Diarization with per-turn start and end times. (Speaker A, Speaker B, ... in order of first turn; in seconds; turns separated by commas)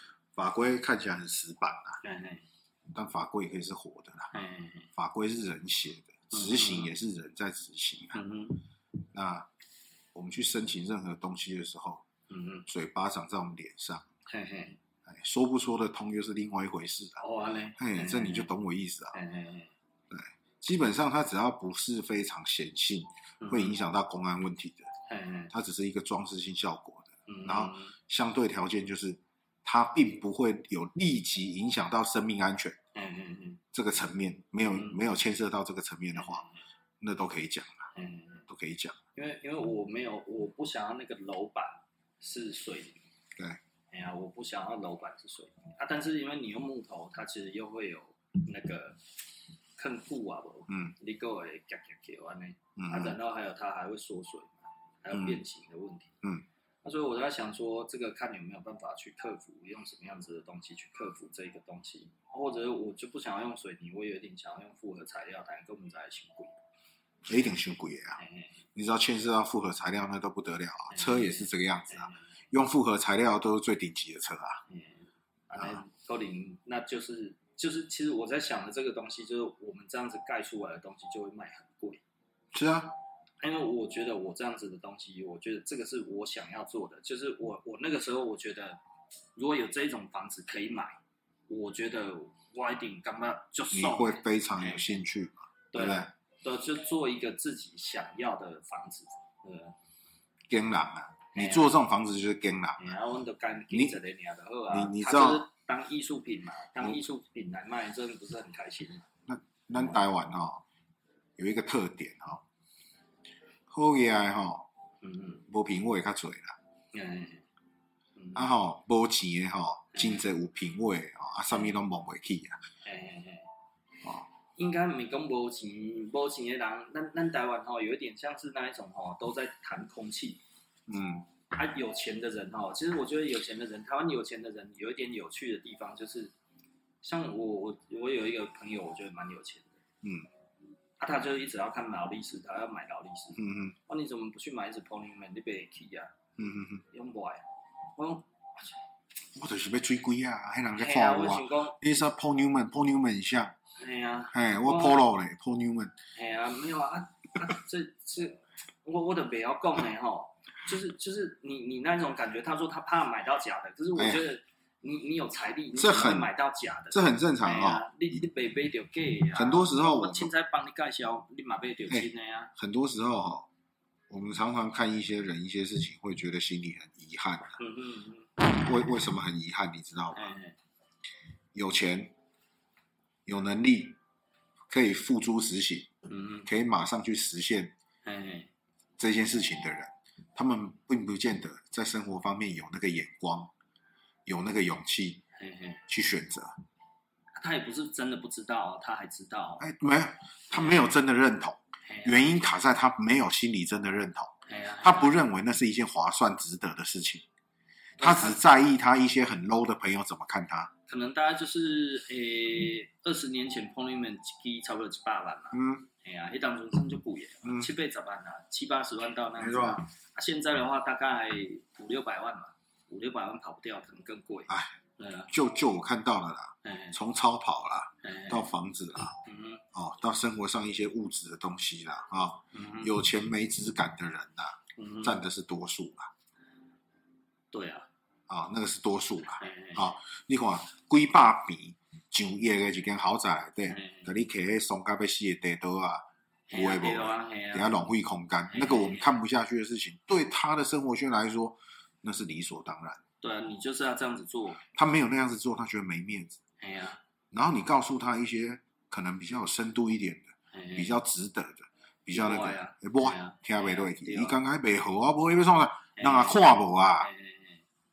Speaker A: 0.3-2.0, Speaker B: 2.0-2.4, Speaker A: 2.9-4.3, Speaker B: 4.3-4.9, Speaker A: 4.9-8.2, Speaker B: 6.3-6.9, Speaker B: 8.1-8.6, Speaker A: 9.1-9.5, Speaker A: 10.1-12.0, Speaker B: 12.3-12.7, Speaker A: 12.7-14.0, Speaker B: 14.3-14.8, Speaker A: 15.1-17.2, Speaker B: 17.2-18.5, Speaker A: 17.8-19.1, Speaker B: 19.1-19.7, Speaker A: 20.1-24.9, Speaker B: 23.4-23.8, Speaker B: 25.1-25.5, Speaker A: 25.5-32.8, Speaker B: 27.3-27.9, Speaker B: 32.9-33.6, Speaker A: 33.7-36.4, Speaker B: 34.7-35.0, Speaker B: 36.1-36.5, Speaker A: 37.0-37.9, Speaker B: 37.9-38.5, Speaker A: 38.5-39.0, Speaker B: 39.1-43.0, Speaker B: 43.9-49.0, Speaker B: 49.8-56.1, Speaker A: 50.7-50.9, Speaker A: 52.8-53.1, Speaker A: 55.1-55.4, Speaker B: 56.8-66.5, Speaker A: 67.2-68.2, Speaker B: 68.2-68.5, Speaker A: 68.7-74.6, Speaker B: 70.9-72.2, Speaker B: 74.7-82.0, Speaker A: 82.5-82.9, Speaker B: 83.4-88.8, Speaker B: 89.3-90.9, Speaker B: 91.5-94.8, Speaker A: 93.7-96.1, Speaker B: 95.7-99.7, Speaker A: 100.5-102.9, Speaker B: 101.3-101.7, Speaker B: 102.8-109.0, Speaker A: 104.7-105.4, Speaker A: 109.3-110.6, Speaker A: 111.4-112.4, Speaker A: 113.7-114.7, Speaker B: 115.0-115.4, Speaker A: 115.5-116.5, Speaker B: 116.9-117.4, Speaker B: 118.2-118.4, Speaker A: 118.3-122.6, Speaker B: 119.9-120.2, Speaker B: 122.8-123.5, Speaker B: 124.6-130.4, Speaker A: 130.9-131.3, Speaker B: 131.5-136.3, Speaker B: 137.0-139.7, Speaker B: 141.0-146.1, Speaker A: 143.4-143.7, Speaker A: 146.4-146.8, Speaker B: 146.9-147.4, Speaker B: 147.9-148.7, Speaker A: 149.3-153.5, Speaker B: 150.7-151.8, Speaker B: 153.8-155.0, Speaker A: 154.3-155.9, Speaker B: 156.1-172.5, Speaker A: 164.0-164.2, Speaker A: 165.8-166.3, Speaker A: 166.9-167.8, Speaker A: 169.3-170.3, Speaker A: 171.9-173.5, Speaker A: 174.1-177.6, Speaker B: 177.6-178.4, Speaker A: 178.4-180.3, Speaker B: 180.1-180.6, Speaker A: 181.5-182.1, Speaker A: 183.2-184.0, Speaker A: 184.7-185.9, Speaker B: 186.1-186.5, Speaker A: 186.4-187.7, Speaker B: 188.0-188.5, Speaker A: 189.0-193.5, Speaker A: 194.2-195.2, Speaker B: 195.4-195.8, Speaker A: 195.9-196.5, Speaker B: 197.3-199.7, Speaker A: 199.6-207.2, Speaker B: 200.5-200.9, Speaker B: 201.8-202.2, Speaker B: 204.5-205.2, Speaker B: 208.0-208.4, Speaker A: 208.0-210.7, Speaker B: 210.9-225.3, Speaker A: 215.5-215.9, Speaker A: 219.4-219.8, Speaker A: 224.5-224.7, Speaker A: 225.3-229.2, Speaker B: 226.6-227.0, Speaker B: 228.0-228.5, Speaker B: 229.2-229.6, Speaker A: 229.7-236.1, Speaker B: 232.5-232.9, Speaker B: 234.8-235.2, Speaker B: 237.5-237.9, Speaker A: 238.3-253.0, Speaker B: 239.4-239.8, Speaker B: 243.7-244.1, Speaker B: 246.5-247.7, Speaker B: 248.5-249.1, Speaker B: 253.2-254.6, Speaker A: 254.7-256.4, Speaker B: 256.6-257.0, Speaker A: 257.3-267.1, Speaker B: 260.5-260.9, Speaker B: 262.1-264.4, Speaker B: 266.0-266.5, Speaker B: 267.0-267.6